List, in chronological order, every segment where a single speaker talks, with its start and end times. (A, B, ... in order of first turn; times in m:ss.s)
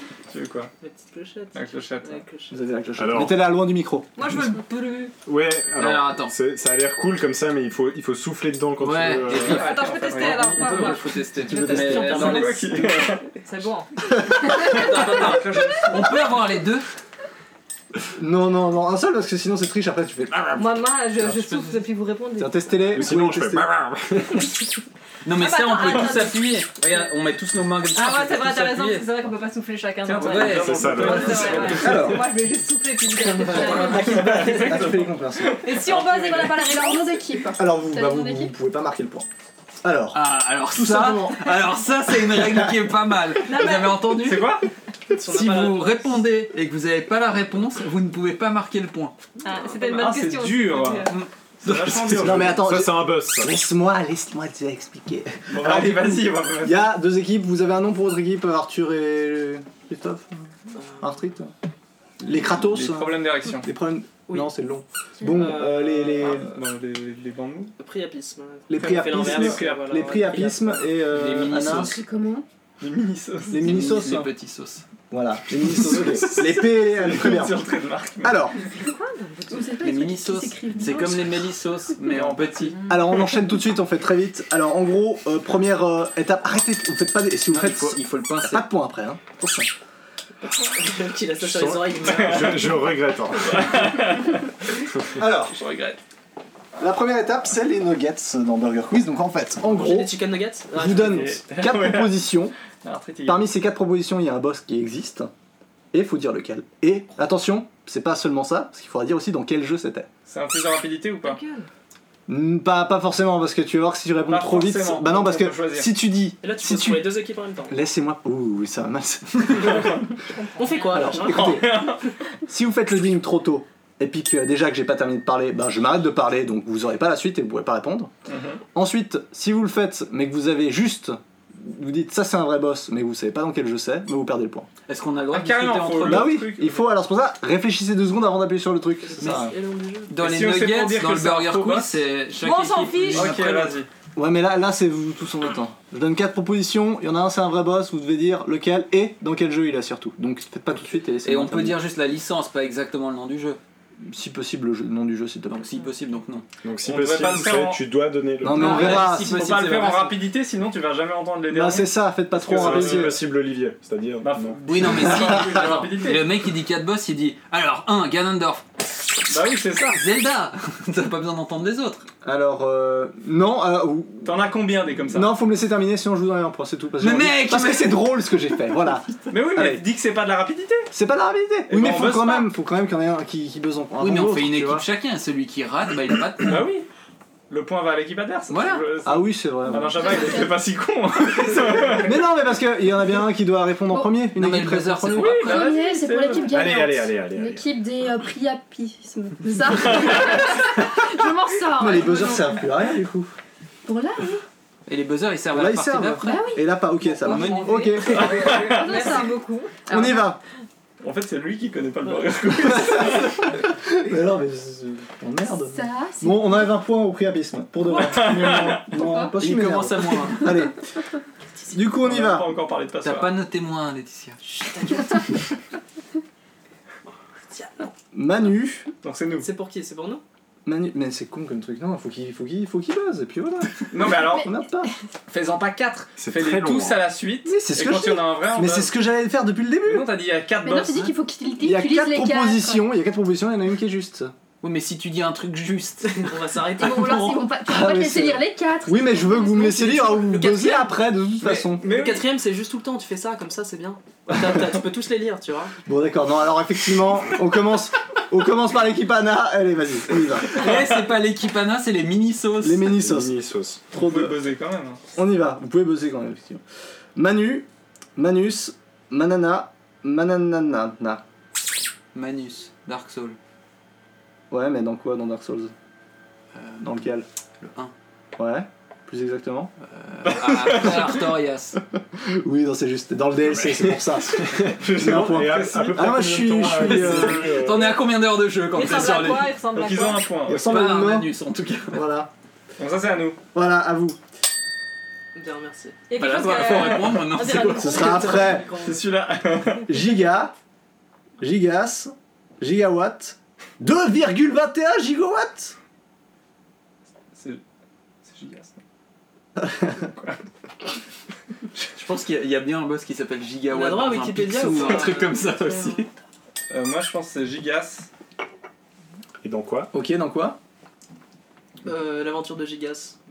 0:00.3-0:00.7 A
0:00.8-0:02.6 B
0:01.5-0:02.2 A
0:02.5-0:04.1 C
0:03.0-0:03.5 D
0:04.2-0:05.1 E
0:05.2-0:09.6 D
0:05.8-0:06.3 F
0:08.8-0:12.8 F
0:09.3-0:10.6 A
0:09.4-0:12.7 E
0:11.5-0:12.1 C
0:12.0-0:13.2 A
0:13.4-0:15.6 E
0:14.4-0:14.8 C
0:14.4-0:16.8 F
0:15.1-0:15.9 A
0:18.2-0:20.6 C
0:20.6-0:23.0 E
0:22.4-0:23.8 C
0:22.9-0:24.6 D
0:25.2-0:29.3 F
0:25.3-0:26.9 E
0:27.9-0:34.9 E
0:30.0-0:32.0 A
0:30.1-0:32.1 F
0:30.4-0:32.0 D
0:31.8-0:32.3 C
0:33.2-0:35.6 C
0:33.6-0:36.6 A
0:35.6-0:37.2 E
0:36.5-0:38.5 G
0:37.6-0:39.3 C
0:39.8-0:41.6 C
0:40.1-0:44.6 F
0:42.2-0:42.7 C
0:43.4-0:44.3 E
0:44.2-0:44.6 A
0:45.1-0:46.2 B
0:45.1-0:49.1 F
0:49.4-0:51.2 E
0:49.8-0:51.1 A
0:51.1-0:52.0 F
0:51.6-0:52.6 A
0:51.9-0:53.5 D
0:52.1-1:01.5 C
0:55.5-0:56.9 A
1:00.8-1:01.2 B
1:02.2-1:06.5 C
1:02.6-1:03.7 A
1:05.2-1:06.4 B
1:06.1-1:07.7 A
1:07.8-1:11.0 B
1:08.7-1:12.0 C
1:08.8-1:10.0 A
1:11.1-1:12.0 F
1:11.5-1:12.4 G
1:12.8-1:13.6 A
1:13.5-1:14.3 C
1:13.5-1:14.8 F
1:15.1-1:17.6 C
1:15.8-1:18.4 A
1:18.2-1:18.6 C
1:18.5-1:19.9 E
1:19.5-1:21.5 G
1:19.8-1:22.8 F
1:22.1-1:22.8 A
1:22.9-1:29.7 C
1:27.5-1:28.7 F
1:30.4-1:32.9 B
1:31.4-1:33.9 D
1:32.1-1:32.6 A
1:33.3-1:34.5 A
1:35.2-1:35.6 C
1:35.4-1:36.0 A
1:36.8-1:40.2 C
1:39.6-1:41.3 B
1:40.7-1:42.5 C
1:40.8-1:42.3 A
1:42.8-1:43.4 A
1:43.2-1:45.3 C
1:45.9-1:50.1 C
1:50.3-1:51.4 A
1:51.2-1:51.7 E
1:52.3-1:59.9 C
1:54.3-1:55.9 A
1:56.4-1:57.8 B
2:00.3-2:01.2 E
2:00.6-2:01.7 B
2:00.9-2:01.8 C
2:01.1-2:02.0 A
2:02.5-2:08.1 C
2:08.3-2:08.6 A
2:08.7-2:14.7 C
2:14.9-2:16.3 F
2:15.3-2:16.9 A
2:16.0-2:19.5 C
2:19.0-2:20.1 B
2:19.2-2:19.5 F
2:20.1-2:23.8 F
2:20.2-2:22.0 A
2:22.4-2:23.4 E
2:23.1-2:23.9 A
2:24.1-2:31.8 C
2:31.2-2:33.6 F
2:34.0-2:35.7 C
2:35.5-2:36.4 F
2:36.6-2:38.8 D
2:36.8-2:37.8 A
2:38.4-2:39.4 C
2:38.5-2:40.2 F
2:38.5-2:43.1 A
2:41.5-2:43.2 C
2:42.4-2:44.6 D
2:44.2-2:46.3 A
2:44.6-2:48.6 F
2:49.3-2:50.0 A
2:49.9-2:52.1 F
2:52.2-2:54.4 C
2:54.2-2:55.3 A
2:55.1-2:59.8 C
2:57.0-2:58.1 F
2:59.3-3:00.9 A
3:00.9-3:04.8 C
3:01.7-3:02.5 A
3:04.0-3:06.7 F
3:06.4-3:06.9 A
3:07.5-3:12.2 A
3:08.5-3:08.8 F
3:09.0-3:10.2 C
3:09.9-3:10.6 G
3:12.0-3:15.4 C
3:13.9-3:14.2 G
3:14.3-3:15.7 F
3:15.1-3:16.6 A
3:15.3-3:23.0 G
3:16.4-3:17.7 D
3:21.7-3:23.3 C
3:23.8-3:24.4 G
3:24.9-3:26.4 F
3:25.5-3:28.4 C
3:26.2-3:27.4 G
3:27.1-3:29.9 E
3:27.3-3:27.8 F
3:28.1-3:29.1 A
3:28.4-3:30.3 G
3:29.9-3:30.4 C
3:31.0-3:33.5 A
3:33.1-3:40.8 C
3:35.5-3:36.8 G
3:37.9-3:38.9 A
3:38.9-3:39.4 G
3:39.4-3:40.7 F
3:41.7-3:42.5 C
3:42.0-3:43.3 A
3:43.0-3:44.4 F
3:44.4-3:45.4 B
3:47.5-3:47.9 B
3:48.1-3:48.9 C
3:49.0-3:49.5 A
3:49.3-3:50.2 B
3:50.6-3:54.9 C
3:53.9-3:54.5 A
3:55.3-3:58.9 A
3:56.2-3:57.1 D
3:57.4-4:00.1 C
3:59.8-4:01.1 A
4:00.6-4:02.9 G
4:01.6-4:04.3 C
4:04.6-4:07.1 F
4:06.1-4:07.4 B
4:06.8-4:10.9 G
4:07.6-4:11.9 C
4:10.4-4:10.7 B
4:11.4-4:12.2 A
4:11.8-4:15.7 B
4:15.8-4:20.7 C
4:20.5-4:22.8 F
4:22.6-4:23.4 C
4:22.8-4:23.8 D
4:23.9-4:24.4 C
4:23.9-4:25.0 A
4:25.1-4:26.6 C
4:27.2-4:31.2 C
4:32.1-4:33.4 F
4:34.5-4:35.7 C
4:36.5-4:37.0 F
4:36.8-4:37.3 C
4:37.6-4:37.9 F
4:38.4-4:39.7 C
4:39.9-4:41.8 F
4:40.2-4:41.2 A
4:42.1-4:47.7 C
4:43.5-4:48.0 D
4:44.8-4:46.9 A
4:46.8-4:49.6 F
4:48.7-4:50.4 E
4:49.7-4:50.8 A
4:50.4-4:51.4 C
4:50.6-4:52.1 F
4:51.9-4:52.3 C
4:52.8-4:53.4 A
4:53.5-4:54.2 C
4:55.3-4:56.0 B
4:56.1-4:58.4 E
4:56.2-4:58.3 F
4:57.4-4:59.0 B
4:57.8-4:58.7 C
4:58.8-5:00.0 A
4:59.9-5:00.5 C
5:01.4-5:05.8 C
5:07.3-5:07.6 A
5:08.2-5:08.8 A
5:09.6-5:09.9 C
5:10.0-5:10.4 A
5:11.9-5:16.1 F
5:13.7-5:15.9 B
5:16.7-5:18.1 A
5:19.4-5:19.9 D
5:19.9-5:20.6 C
5:21.8-5:23.2 B